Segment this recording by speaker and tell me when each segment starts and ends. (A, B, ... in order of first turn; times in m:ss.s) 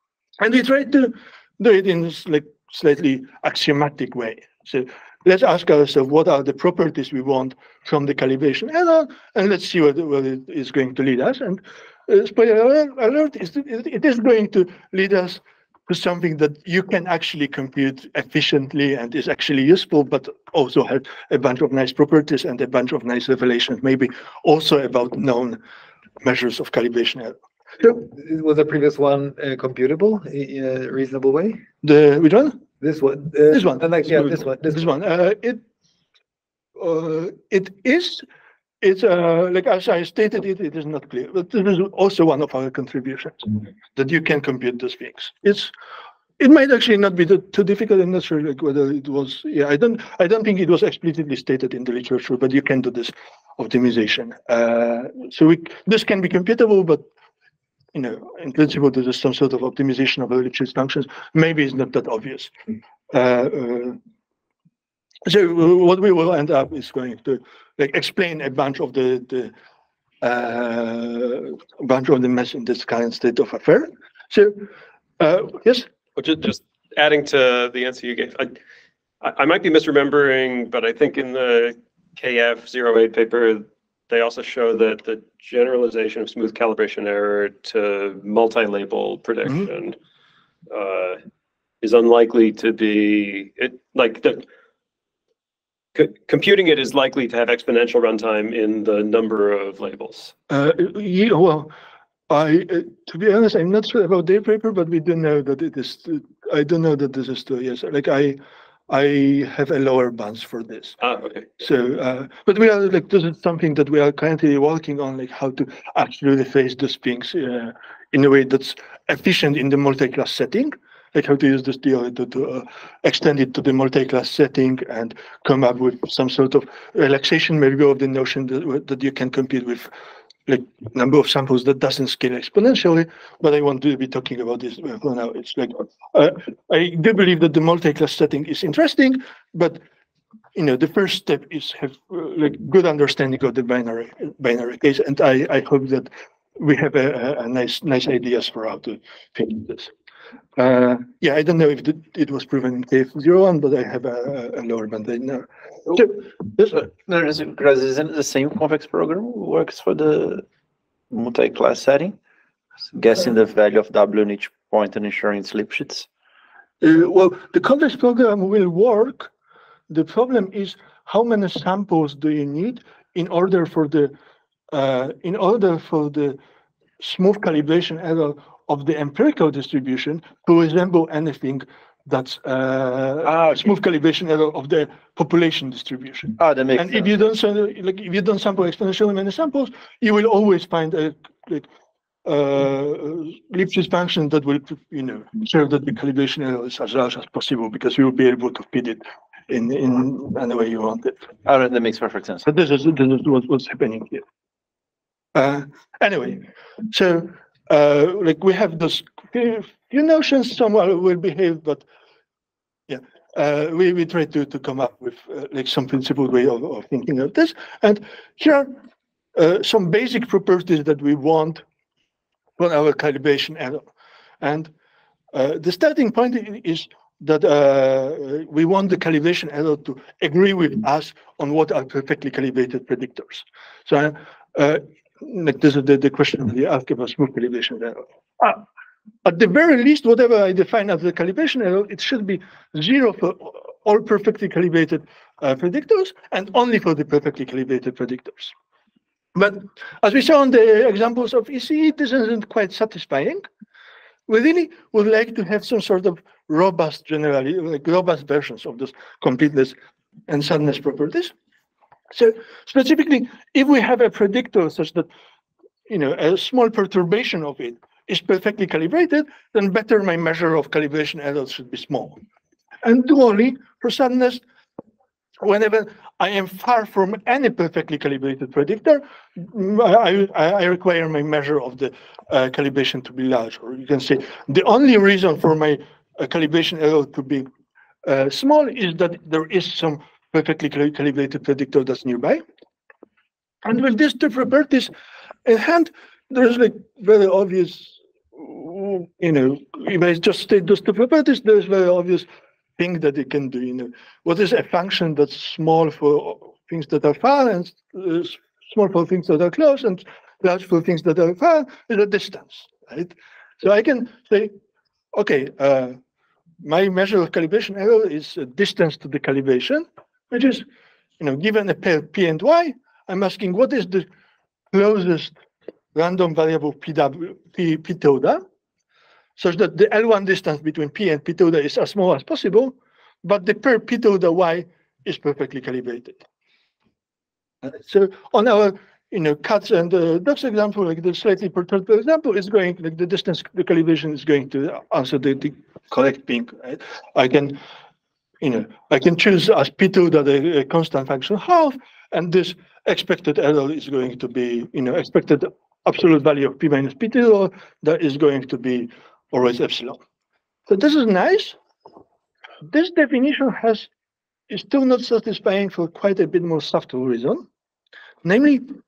0:00.4-0:25.6 A
0:26.2-0:28.1 A
0:28.1-0:31.6 B
0:31.8-0:32.6 A
0:32.8-0:34.9 B
0:33.5-0:35.6 A
0:36.8-0:38.2 A
0:38.8-0:45.7 A
0:46.4-0:57.0 A
0:57.9-1:02.5 A
1:03.1-1:04.0 A
1:05.2-1:09.5 A
1:10.2-1:14.7 A
1:15.2-1:15.9 A
1:16.2-1:18.6 C
1:19.2-1:30.0 C
1:30.7-1:31.2 C
1:31.8-1:34.5 C
1:35.9-1:40.3 C
1:40.5-1:41.7 A
1:42.3-1:51.0 A
1:51.0-1:51.4 C
1:51.6-2:09.9 A
2:10.5-2:19.8 A
2:20.5-2:29.9 A
2:30.6-2:36.8 A
2:36.7-2:40.4 D
2:41.1-2:42.1 D
2:42.9-2:46.1 D
2:46.8-2:49.3 A
2:49.9-2:54.1 A
2:54.7-2:56.4 A
2:57.0-3:11.7 A
3:03.2-3:03.5 D
3:06.4-3:07.1 D
3:12.2-3:21.2 A
3:21.4-3:22.5 D
3:22.4-3:24.2 A
3:25.3-3:31.8 A
3:32.9-3:38.8 A
3:39.4-3:41.6 A
3:42.6-3:43.9 A
3:44.4-3:44.7 A
3:45.3-3:58.6 A
3:59.2-4:08.5 A
4:09.4-4:13.4 A
4:14.3-4:19.7 A
4:20.3-4:21.3 A
4:22.1-4:25.1 A
4:25.9-4:32.2 A
4:32.8-4:34.4 A
4:35.4-4:47.4 A
4:48.0-4:52.4 A
4:53.6-4:54.9 A
4:55.4-5:02.3 A
5:02.8-5:14.5 A
5:15.1-5:16.0 A
5:16.6-5:20.6 A
5:21.2-5:24.1 A
5:24.7-5:25.4 A
5:25.9-5:28.4 A
5:29.4-5:36.2 A
5:37.6-5:47.6 A
5:48.4-6:00.0 A
6:00.7-6:01.6 A
6:02.7-6:03.9 A
6:04.5-6:07.4 A
6:08.2-6:08.6 A